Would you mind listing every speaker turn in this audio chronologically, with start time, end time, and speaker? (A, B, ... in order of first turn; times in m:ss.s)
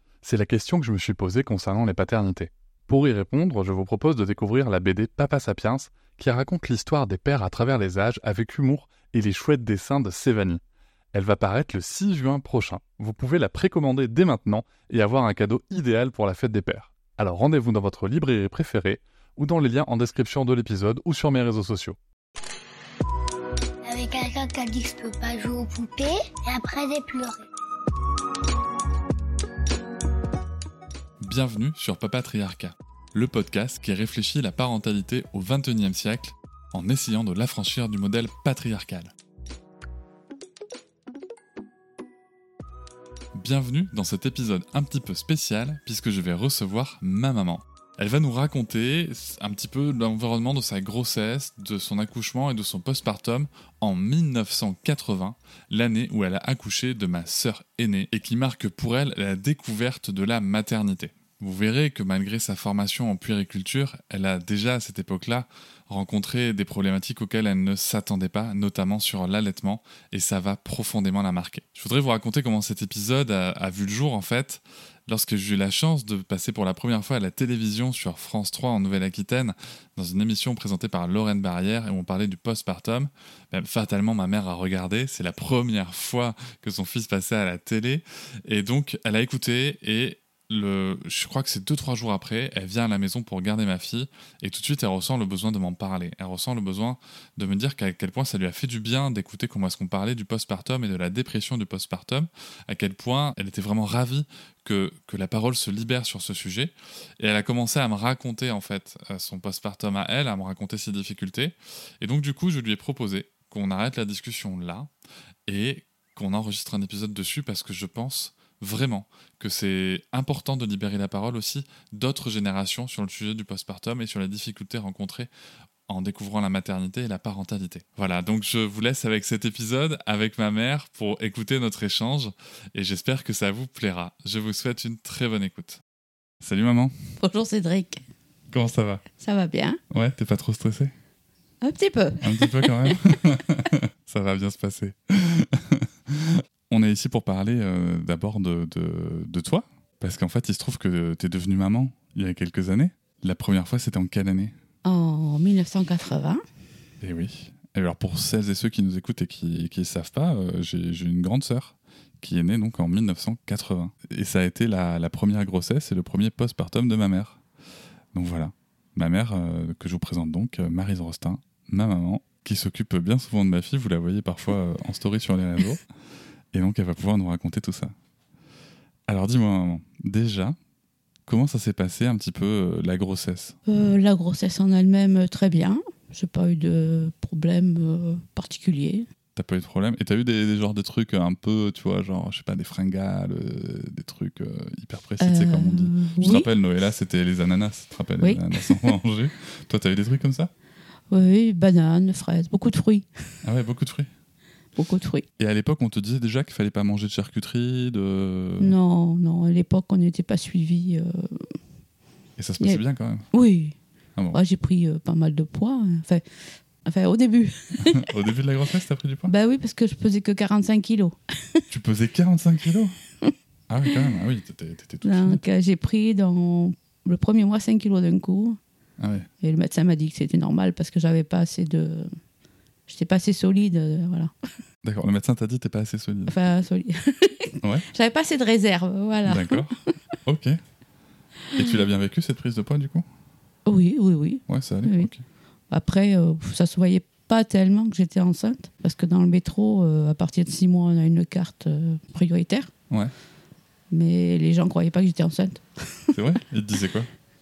0:00.2-0:10.6 A
0:11.1-0:22.0 A
0:23.8-0:27.4 B
0:31.2-0:39.1 C
0:43.3-1:54.9 C
1:55.4-2:05.3 C
2:05.9-2:15.8 C
2:16.4-2:16.9 C
2:17.2-2:18.0 D
2:18.5-2:19.0 C
2:19.2-2:19.8 D
2:19.9-2:20.9 C
2:21.6-2:23.0 D
2:22.2-2:34.5 C
2:34.8-2:36.4 D
2:37.0-2:47.4 C
2:48.1-2:55.8 C
2:56.5-2:57.9 C
2:59.1-3:00.6 C
3:01.2-3:03.6 C
3:03.7-3:09.0 D
3:09.4-3:20.5 C
3:15.2-3:16.5 D
3:18.2-3:19.0 D
3:21.1-3:23.1 D
3:23.4-3:24.1 C
3:24.8-3:25.2 D
3:25.4-3:28.7 C
3:28.6-3:31.5 D
3:32.4-3:33.3 C
3:33.3-3:33.8 D
3:34.3-3:36.2 D
3:36.8-3:38.2 D
3:37.8-3:39.3 C
3:39.3-3:41.6 D
3:41.7-3:43.0 C
3:43.7-3:45.4 C
3:45.0-3:48.6 D
3:49.0-3:49.3 C
3:49.4-3:52.1 D
3:52.9-3:54.3 D
3:54.8-3:56.4 C
3:56.3-4:00.0 D
3:59.2-3:59.7 C
4:00.2-4:00.6 C
4:01.5-4:03.1 C
4:03.6-4:05.1 D
4:04.5-4:05.2 C
4:05.7-4:12.7 D
4:13.9-4:16.2 D
4:16.1-4:17.1 C